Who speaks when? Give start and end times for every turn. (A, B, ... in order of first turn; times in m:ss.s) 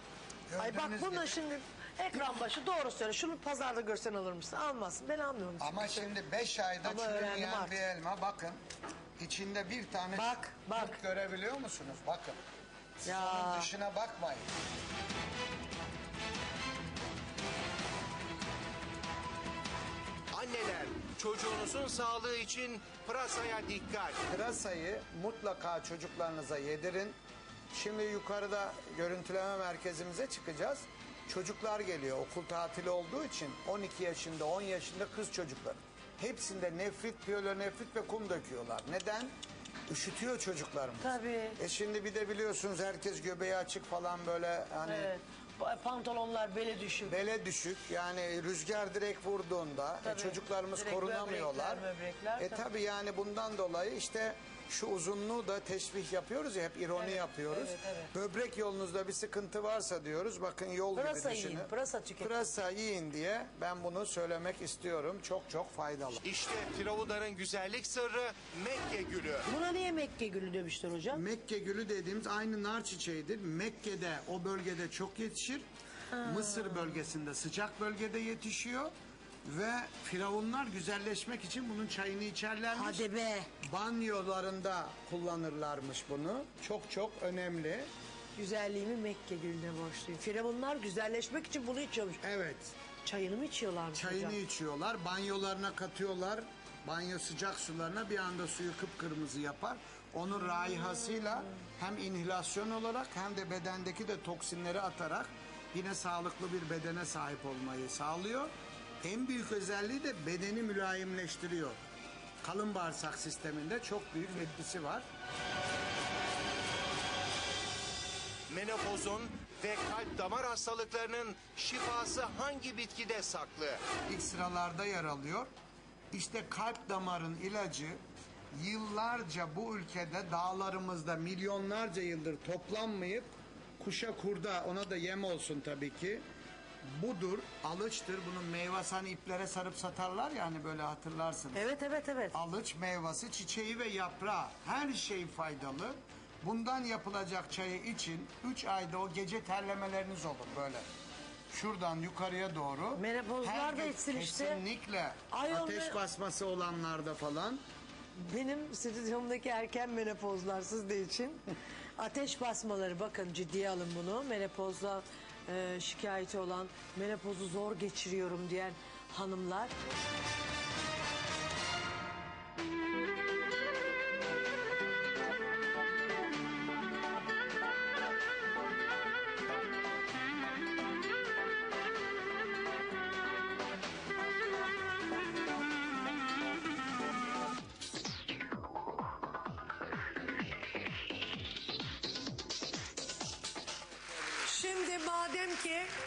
0:00.5-0:01.4 A
0:00.6-0:06.1 B
0:05.6-0:08.6 A
0:06.8-0:07.8 B
0:09.2-0:12.4 A
0:10.1-0:11.0 B
0:13.0-0:14.5 A
0:13.1-0:13.7 B
0:20.3-0:24.2 C
0:24.3-0:27.2 A
0:27.7-0:39.3 A
0:39.9-0:45.1 A
0:41.0-0:41.6 B
0:44.8-0:47.2 B
0:47.1-0:51.8 A
0:50.0-0:52.6 B
0:52.4-1:06.2 A
0:57.0-0:58.1 B
1:01.0-1:02.4 B
1:06.2-1:09.5 C
1:09.5-1:11.2 B
1:11.1-1:18.9 A
1:16.1-1:17.0 B
1:19.4-1:23.0 A
1:22.7-1:23.5 B
1:23.6-1:27.9 A
1:28.4-1:32.2 B
1:32.2-1:32.7 A
1:33.0-1:34.4 B
1:34.0-1:51.8 A
1:40.7-1:41.4 B
1:52.4-1:55.0 A
1:58.5-2:03.8 C
2:04.1-2:05.5 A
2:06.1-2:08.0 A
2:08.5-2:13.3 A
2:13.8-2:16.2 A
2:16.8-2:21.6 A
2:21.5-2:22.4 B
2:22.3-2:30.9 A
2:31.5-2:37.6 A
2:33.0-2:34.6 B
2:35.3-2:36.0 B
2:38.2-2:41.5 B
2:42.0-2:49.7 B
3:14.4-3:15.9 B